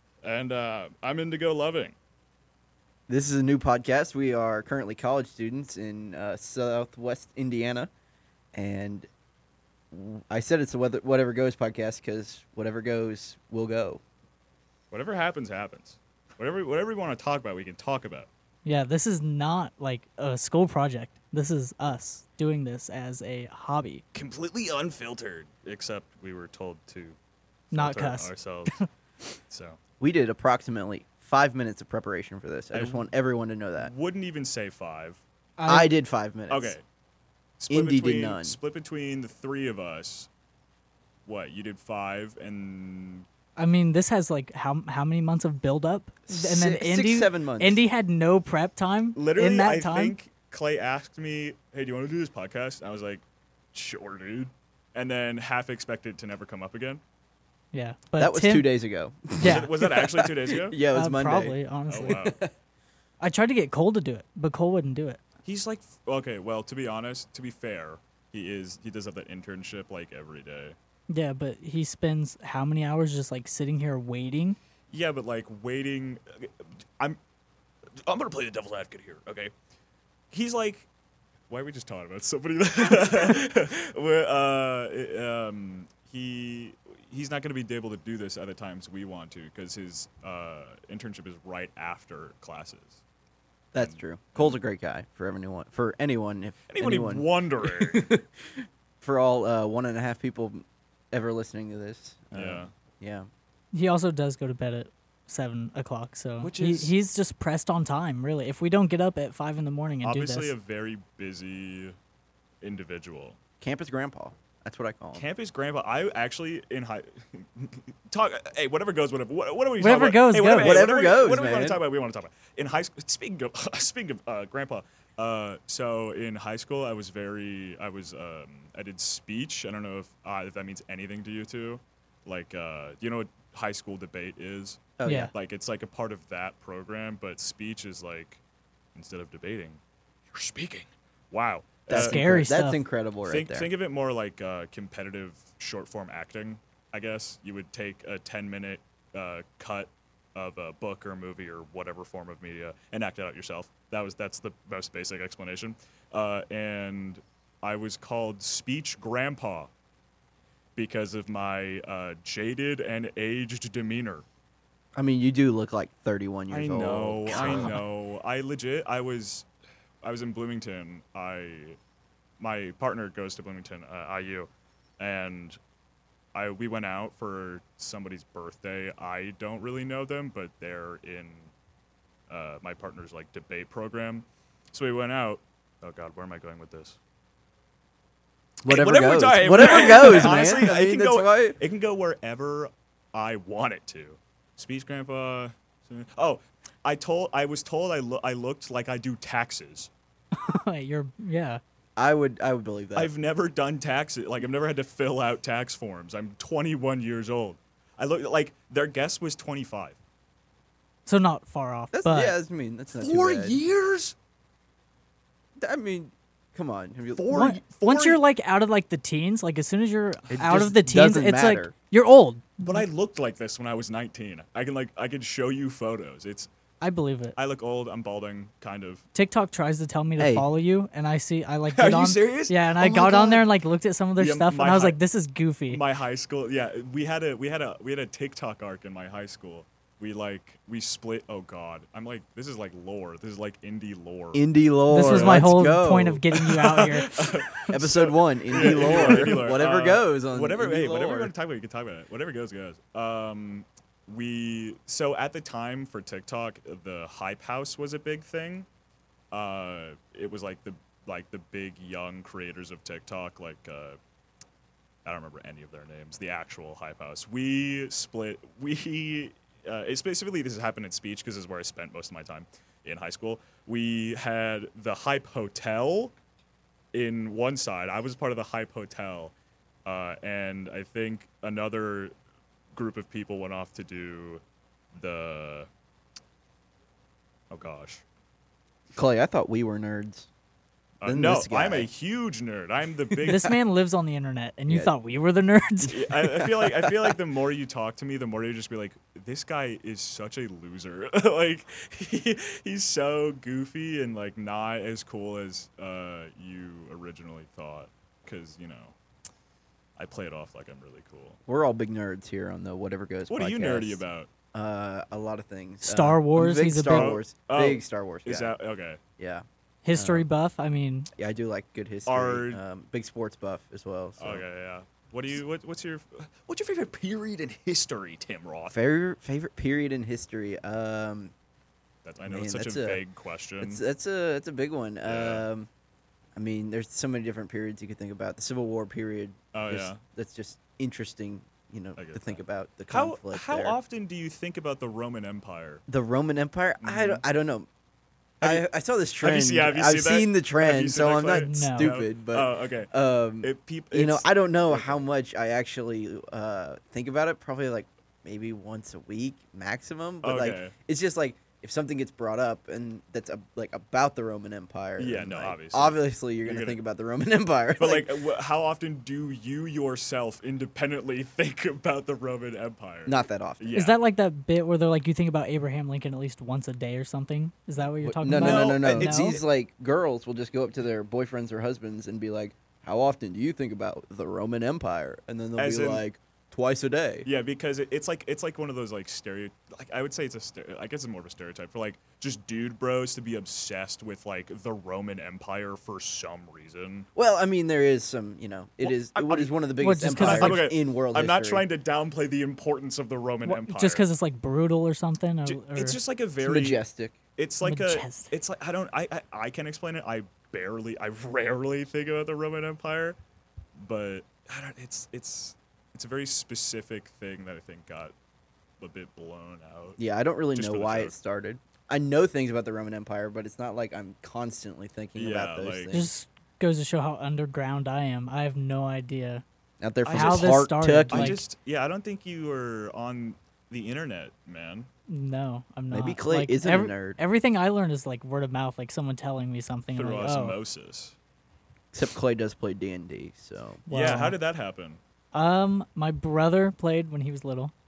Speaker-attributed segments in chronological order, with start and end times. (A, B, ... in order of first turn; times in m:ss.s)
0:00.2-0:02.0 A
0:03.1-0:07.9 B
0:08.6-0:09.1 B
0:09.9-0:14.0 B
0:14.9-0:18.3 A
0:18.6-0:24.0 C
0:24.1-0:27.2 A
0:27.7-0:28.7 A
0:27.7-0:28.9 C
0:29.5-0:29.8 A
0:30.0-0:33.9 B
0:32.7-0:33.1 A
0:33.8-0:35.2 A
0:35.6-0:35.9 C
0:35.7-0:36.8 B
0:36.5-0:36.8 A
0:37.6-0:40.3 A
0:37.7-0:38.6 B
0:41.3-0:43.3 A
0:43.6-0:50.2 C
0:46.3-0:47.8 B
0:49.2-0:57.0 A
0:57.7-0:58.7 C
0:58.2-1:02.5 B
0:59.4-0:59.7 C
0:59.4-1:00.8 A
1:00.9-1:02.2 C
1:01.9-1:02.4 A
1:03.2-1:05.2 C
1:05.4-1:10.8 A
1:11.1-1:14.6 C
1:14.9-1:17.2 A
1:18.1-1:19.5 A
1:20.3-1:20.9 A
1:21.5-1:33.0 A
1:33.7-1:43.3 B
1:33.8-1:34.6 A
1:36.7-1:38.0 A
1:42.3-1:42.7 A
1:43.7-1:50.5 C
1:46.4-1:46.9 A
1:50.0-1:52.0 A
1:52.6-1:53.4 A
1:53.6-1:55.3 B
1:55.1-2:18.4 A
1:59.8-2:00.8 C
2:00.5-2:01.8 B
2:15.0-2:15.3 B
2:15.0-2:15.3 C
2:19.0-2:22.4 A
2:21.9-2:23.7 B
2:21.9-2:22.8 C
2:23.3-2:39.7 A
2:40.8-2:44.2 A
2:45.0-2:47.8 B
2:46.5-2:49.5 A
2:50.0-2:51.8 A
2:52.4-2:55.6 A
2:56.3-3:01.5 A
3:02.3-3:07.0 A
3:08.6-3:11.6 B
3:08.7-3:19.9 A
3:20.3-3:21.6 C
3:22.0-3:23.1 B
3:23.0-3:30.0 A
3:31.1-3:32.4 C
3:31.9-3:33.6 B
3:33.0-3:34.2 A
3:35.6-3:37.5 B
3:37.2-3:38.2 A
3:37.3-3:42.8 C
3:40.3-3:41.7 B
3:42.6-3:46.5 A
3:46.8-3:47.4 C
3:47.4-3:49.0 A
3:49.2-3:55.8 C
3:50.2-3:50.5 B
3:51.7-3:53.5 A
3:54.2-3:55.0 A
3:55.7-4:04.4 A
4:04.3-4:06.4 B
4:04.9-4:07.2 C
4:05.0-4:05.6 A
4:06.3-4:18.7 A
4:07.7-4:11.3 B
4:19.3-4:24.0 A
4:25.0-4:36.2 A
4:36.9-4:39.3 A
4:39.8-4:42.1 A
4:42.7-4:44.4 A
4:44.9-4:45.7 A
4:47.5-4:48.0 A
4:48.9-4:50.3 B
4:51.0-4:53.5 A
4:51.1-4:51.9 B
4:53.1-4:53.5 B
4:53.2-4:56.0 C
4:54.7-4:54.9 B
4:55.8-4:57.2 B
4:55.9-5:09.0 A
5:10.0-5:11.4 A
5:11.5-5:14.0 B
5:13.3-5:14.3 A
5:14.5-5:18.6 B
5:15.8-5:17.2 C
5:16.9-5:19.0 A
5:19.2-5:20.2 B
5:19.8-5:21.1 C
5:21.2-5:24.4 B
5:22.1-5:22.6 A
5:24.2-5:28.8 A
5:28.7-5:31.3 B
5:32.0-5:33.8 A
5:32.3-5:33.0 B
5:33.6-5:35.7 B
5:35.0-5:35.5 A
5:36.4-5:43.8 B
5:39.5-5:40.0 A
5:42.0-5:45.8 A
5:45.9-5:47.7 B
5:46.8-5:47.2 A
5:48.4-5:48.7 A
5:48.4-6:08.2 B
5:49.2-5:52.9 A
5:51.4-5:51.9 C
5:53.4-5:55.1 A
6:00.2-6:00.7 A
6:05.0-6:06.8 A
6:07.8-6:14.0 A
6:13.1-6:13.7 B
6:13.7-6:19.4 C
6:18.0-6:27.3 B
6:18.3-6:19.4 A
6:25.6-6:26.0 A
6:27.3-6:37.1 A
6:37.2-6:41.6 B
6:38.8-6:39.5 A
6:39.8-6:40.7 C
6:40.2-6:44.0 A
6:43.4-6:46.0 C
6:45.5-6:46.8 A
6:46.4-6:47.2 B
6:47.4-6:53.2 A
6:47.6-6:48.3 C
6:53.8-6:58.2 A
6:58.8-7:00.0 A
7:00.0-7:06.1 B
7:00.6-7:01.2 A
7:05.2-7:06.0 A
7:05.9-7:09.4 C
7:09.8-7:11.4 B
7:10.0-7:14.9 A
7:10.1-7:11.4 C
7:15.1-7:20.6 C
7:15.9-7:17.2 B
7:19.9-7:21.2 A
7:21.9-7:23.8 B
7:23.9-7:24.4 C
7:23.9-7:25.0 A
7:25.3-7:27.7 C